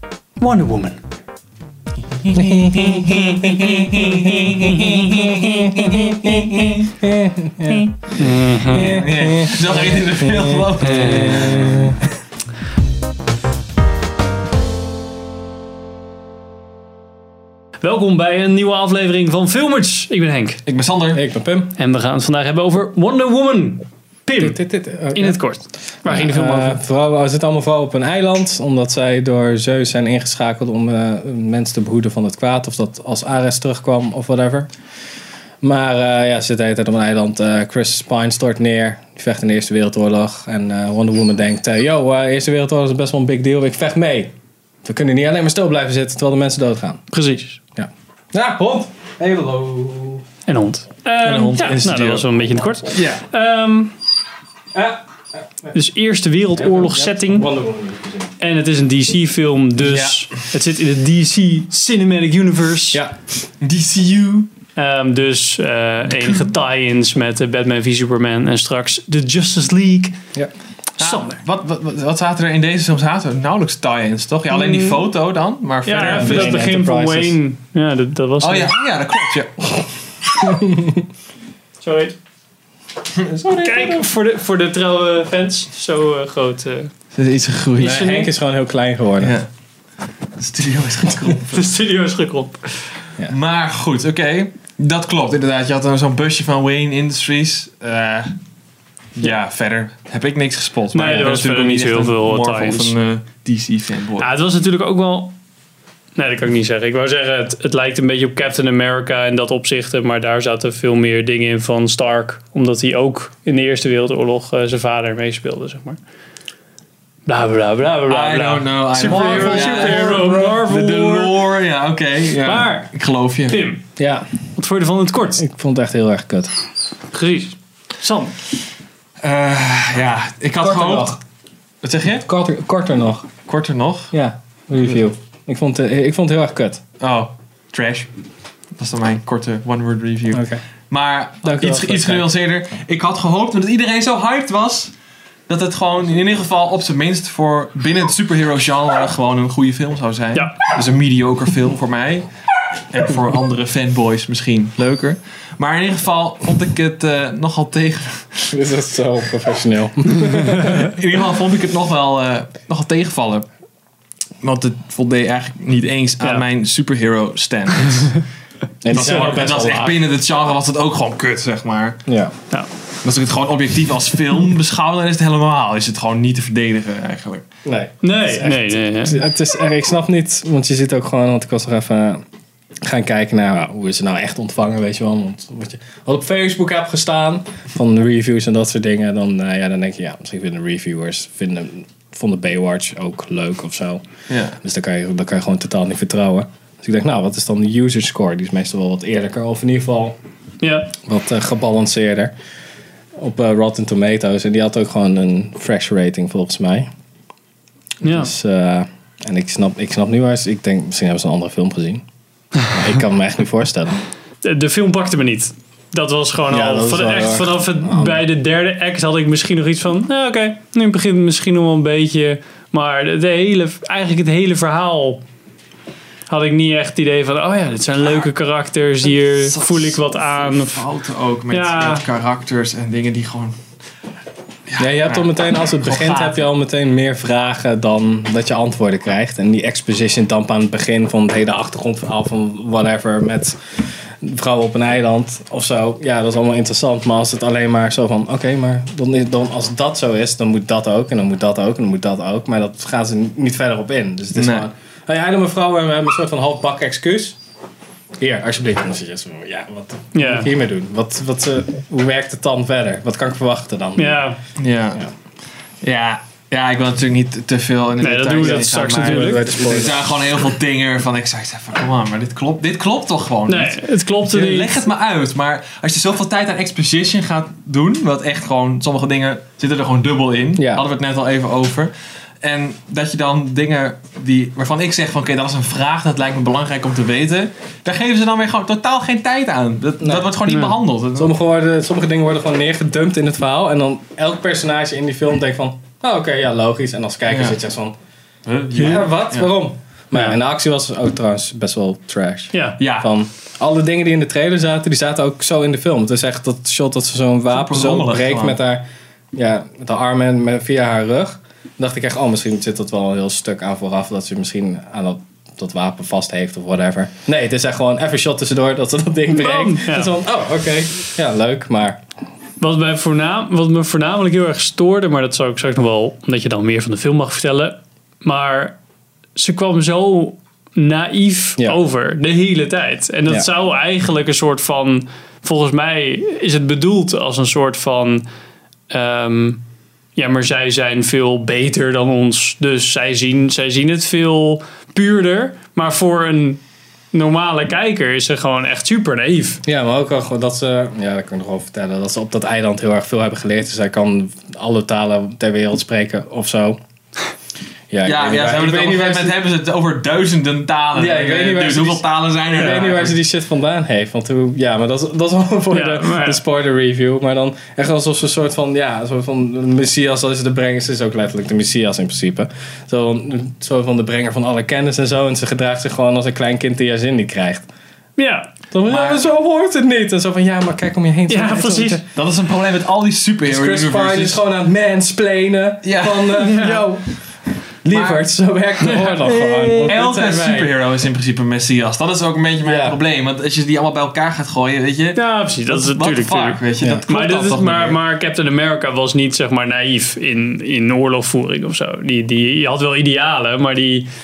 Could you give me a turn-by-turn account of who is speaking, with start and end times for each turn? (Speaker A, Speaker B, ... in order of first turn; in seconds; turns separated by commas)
Speaker A: 0.4-1.0, Speaker B: 2.2-6.8, Speaker C: 2.4-7.9, Speaker A: 8.2-9.0, Speaker C: 8.6-12.0, Speaker B: 8.7-11.7, Speaker A: 10.8-11.8, Speaker A: 17.8-20.6, Speaker B: 20.6-21.2, Speaker C: 21.1-21.7, Speaker A: 21.8-24.6, Speaker C: 24.4-34.7, Speaker A: 25.1-26.8, Speaker C: 35.6-44.3, Speaker C: 44.8-47.0, Speaker A: 47.1-47.6, Speaker C: 47.8-50.2, Speaker A: 50.5-53.9, Speaker B: 51.2-52.3, Speaker B: 52.9-53.2, Speaker C: 54.7-55.0, Speaker A: 55.7-57.5, Speaker C: 56.6-58.3, Speaker A: 58.4-63.0, Speaker B: 59.8-60.4, Speaker C: 62.9-63.2, Speaker B: 63.6-64.5, Speaker A: 64.7-70.2, Speaker A: 71.0-71.4, Speaker B: 71.0-76.6, Speaker A: 74.5-75.0, Speaker A: 75.8-78.7, Speaker C: 76.0-77.4, Speaker B: 78.4-79.8, Speaker C: 80.4-81.0, Speaker A: 81.8-82.1, Speaker B: 83.1-84.0, Speaker A: 83.6-86.9, Speaker B: 87.1-88.1, Speaker C: 87.8-89.3, Speaker A: 87.8-88.3, Speaker B: 89.2-89.5, Speaker B: 90.4-91.6, Speaker A: 91.5-92.9, Speaker B: 93.2-98.3, Speaker B: 99.1-104.3, Speaker A: 100.9-102.9, Speaker A: 104.2-105.3, Speaker A: 106.1-116.0, Speaker A: 117.2-121.4, Speaker B: 118.1-123.6, Speaker C: 119.1-120.1, Speaker A: 122.4-122.9, Speaker A: 123.5-123.8, Speaker C: 124.0-124.2, Speaker A: 124.5-125.4, Speaker C: 125.4-126.5, Speaker A: 127.1-128.3, Speaker B: 129.2-131.2, Speaker C: 130.6-131.2, Speaker B: 131.8-132.2, Speaker C: 132.2-133.3, Speaker B: 133.4-134.1, Speaker C: 134.1-136.8, Speaker B: 137.0-138.1, Speaker B: 138.8-144.9, Speaker C: 140.3-140.6, Speaker C: 141.4-142.3, Speaker B: 145.5-152.3, Speaker A: 150.3-150.6, Speaker B: 152.9-158.5, Speaker C: 158.5-160.9, Speaker B: 160.6-163.5, Speaker B: 164.4-168.2, Speaker C: 168.8-170.0, Speaker B: 168.9-172.0, Speaker A: 168.9-169.4, Speaker C: 172.1-172.3, Speaker B: 173.0-177.4, Speaker C: 177.6-182.2, Speaker A: 178.0-179.2, Speaker C: 182.8-194.0, Speaker B: 194.3-194.6, Speaker C: 194.6-200.2, Speaker A: 200.6-200.9, Speaker C: 201.1-202.3, Speaker C: 203.2-206.9, Speaker A: 208.0-208.3, Speaker C: 208.0-212.0, Speaker C: 212.7-214.0, Speaker A: 214.4-225.2, Speaker C: 216.5-218.2, Speaker A: 226.3-230.8, Speaker B: 229.2-233.6, Speaker A: 231.5-232.0, Speaker B: 234.7-236.5, Speaker C: 234.8-243.6, Speaker C: 244.2-257.4, Speaker B: 254.3-254.7, Speaker C: 258.2-264.3, Speaker A: 260.1-260.5, Speaker A: 263.9-264.4, Speaker B: 264.6-265.0, Speaker B: 265.8-291.3, Speaker A: 268.0-269.6, Speaker C: 268.4-270.2, Speaker A: 273.5-274.8, Speaker C: 280.6-280.8, Speaker C: 290.0-290.3, Speaker A: 290.5-290.7, Speaker C: 291.1-297.9, Speaker B: 297.3-297.6, Speaker B: 298.4-299.5, Speaker C: 298.7-322.0, Speaker A: 302.5-302.8, Speaker B: 302.8-303.1, Speaker B: 307.5-308.6, Speaker A: 319.3-320.1, Speaker A: 322.6-328.8, Speaker A: 329.4-338.2, Speaker A: 338.9-339.6, Speaker A: 340.1-346.6, Speaker A: 347.1-349.6, Speaker C: 349.6-356.8, Speaker C: 357.9-359.4, Speaker B: 358.0-363.2, Speaker C: 360.9-377.6, Speaker A: 365.7-366.4, Speaker A: 378.2-378.5, Speaker C: 378.7-382.0, Speaker B: 378.8-379.2, Speaker A: 381.3-382.0, Speaker B: 382.1-384.4, Speaker C: 383.5-390.7, Speaker B: 385.8-386.9, Speaker A: 386.4-386.8, Speaker B: 387.9-388.2, Speaker A: 389.0-389.9, Speaker B: 389.8-398.0, Speaker C: 392.6-392.9, Speaker A: 395.1-404.1